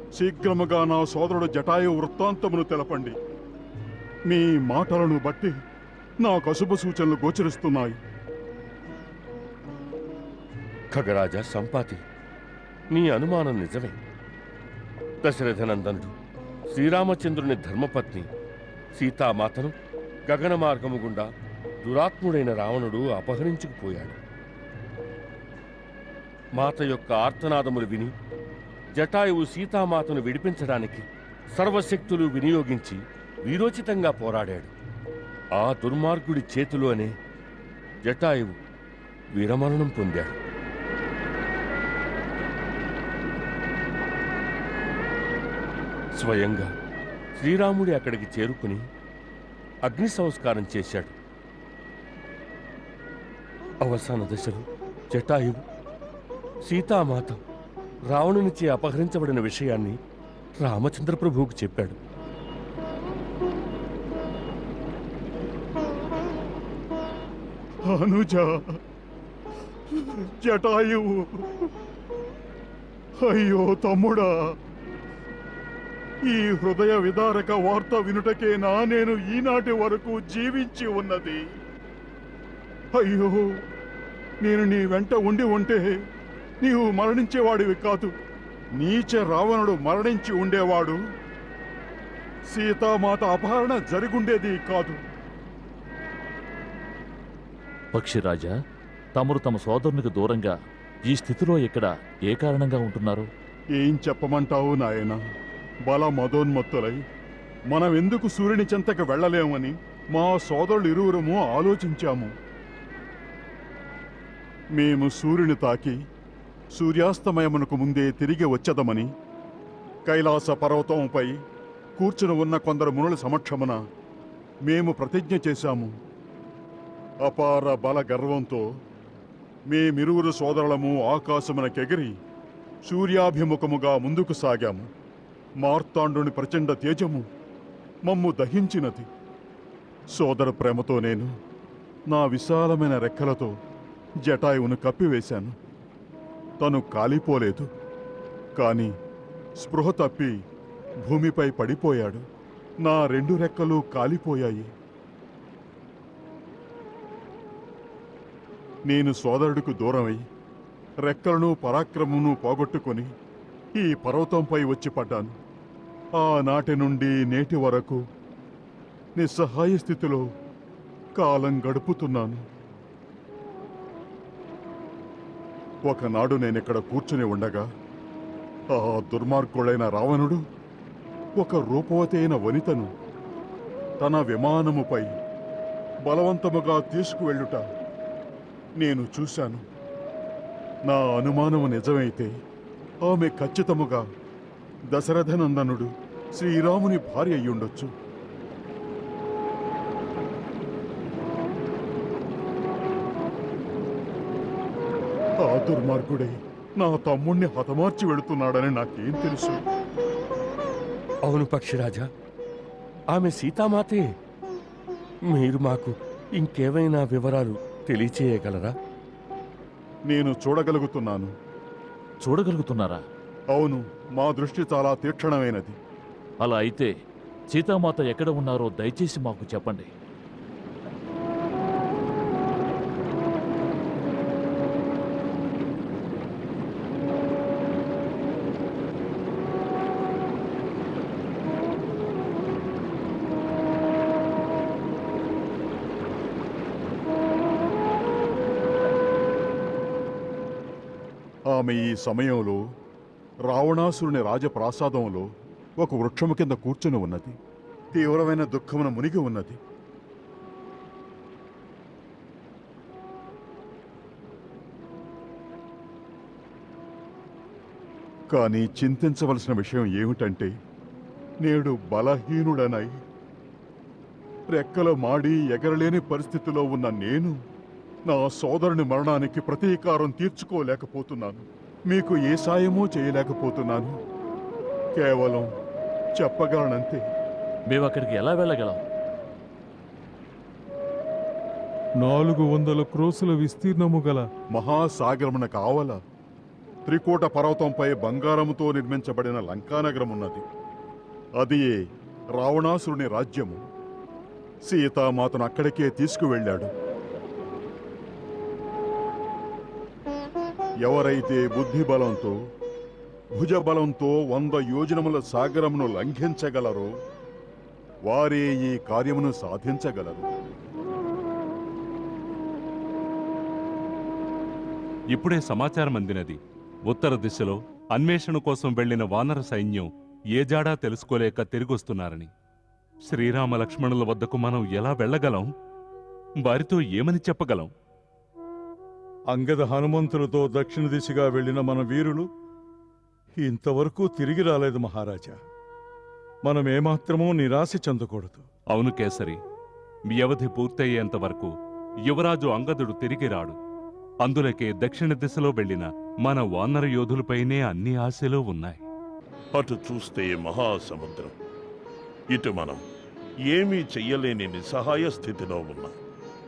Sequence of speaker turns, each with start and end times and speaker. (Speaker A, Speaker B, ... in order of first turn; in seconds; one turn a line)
Speaker A: 0.2-3.2
Speaker A: 4.3-5.5
Speaker A: 6.2-8.0
Speaker B: 10.9-12.0
Speaker B: 12.9-14.0
Speaker B: 15.2-16.1
Speaker B: 16.7-18.3
Speaker B: 19.0-19.8
Speaker B: 20.3-21.3
Speaker B: 21.8-24.2
Speaker B: 26.6-28.1
Speaker B: 29.0-31.0
Speaker B: 31.6-34.7
Speaker B: 35.6-37.1
Speaker B: 38.0-38.5
Speaker B: 39.4-40.4
Speaker B: 46.2-46.7
Speaker B: 47.4-48.8
Speaker B: 49.9-51.1
Speaker B: 53.8-55.6
Speaker B: 56.7-57.4
Speaker B: 58.1-60.0
Speaker B: 60.6-62.0
Speaker A: 67.9-68.5
Speaker A: 69.9-71.7
Speaker A: 73.2-74.3
Speaker A: 76.3-81.4
Speaker A: 83.0-83.4
Speaker A: 84.4-85.9
Speaker A: 86.6-88.1
Speaker A: 88.8-91.0
Speaker A: 92.5-95.0
Speaker C: 97.9-98.5
Speaker C: 99.2-100.5
Speaker C: 101.1-103.3
Speaker A: 103.8-105.2
Speaker A: 105.9-107.0
Speaker A: 107.7-112.3
Speaker A: 114.8-116.0
Speaker A: 116.8-119.1
Speaker A: 120.1-121.4
Speaker A: 122.0-123.8
Speaker A: 124.7-125.9
Speaker A: 127.2-128.7
Speaker A: 129.7-132.2
Speaker A: 132.9-134.9
Speaker A: 135.6-137.3
Speaker A: 138.1-139.1
Speaker A: 140.2-141.3
Speaker A: 142.1-143.5
Speaker A: 144.2-145.6
Speaker A: 146.6-147.7
Speaker A: 148.6-148.9
Speaker A: 149.6-150.3
Speaker A: 151.0-152.2
Speaker A: 152.8-154.7
Speaker A: 158.9-160.2
Speaker A: 161.1-163.1
Speaker A: 163.8-165.3
Speaker A: 166.2-168.0
Speaker A: 169.2-170.2
Speaker A: 171.2-172.4
Speaker A: 175.9-177.7
Speaker A: 178.7-180.4
Speaker A: 181.4-182.9
Speaker A: 184.0-185.1
Speaker A: 186.1-187.6
Speaker A: 188.8-189.6
Speaker A: 190.9-192.3
Speaker A: 193.1-194.0
Speaker A: 194.9-197.9
Speaker A: 205.5-209.6
Speaker B: 211.2-212.1
Speaker B: 213.1-214.0
Speaker B: 215.3-218.8
Speaker A: 220.1-221.3
Speaker C: 222.2-223.0
Speaker A: 223.5-225.8
Speaker C: 226.4-226.9
Speaker C: 227.5-229.9
Speaker A: 251.5-252.6
Speaker A: 253.5-255.3
Speaker A: 255.8-257.4
Speaker A: 257.9-259.6
Speaker A: 268.3-270.5
Speaker A: 271.4-272.9
Speaker A: 274.5-277.4
Speaker A: 278.1-283.9
Speaker A: 285.0-285.5
Speaker A: 286.2-287.0
Speaker C: 287.7-288.8
Speaker D: 292.0-294.3
Speaker A: 294.5-296.0
Speaker A: 296.9-300.4
Speaker A: 301.4-301.8
Speaker A: 302.4-303.6
Speaker A: 304.7-306.7
Speaker A: 310.8-312.4
Speaker A: 313.4-316.9
Speaker A: 318.1-320.3
Speaker E: 325.1-332.3
Speaker E: 333.1-335.5
Speaker E: 336.4-337.7
Speaker D: 339.3-342.3
Speaker D: 343.4-345.4
Speaker D: 346.4-348.4
Speaker E: 348.7-349.4
Speaker E: 350.1-351.5
Speaker E: 352.1-353.6
Speaker E: 354.2-358.8
Speaker F: 359.6-361.3
Speaker F: 362.3-362.8
Speaker F: 363.5-365.9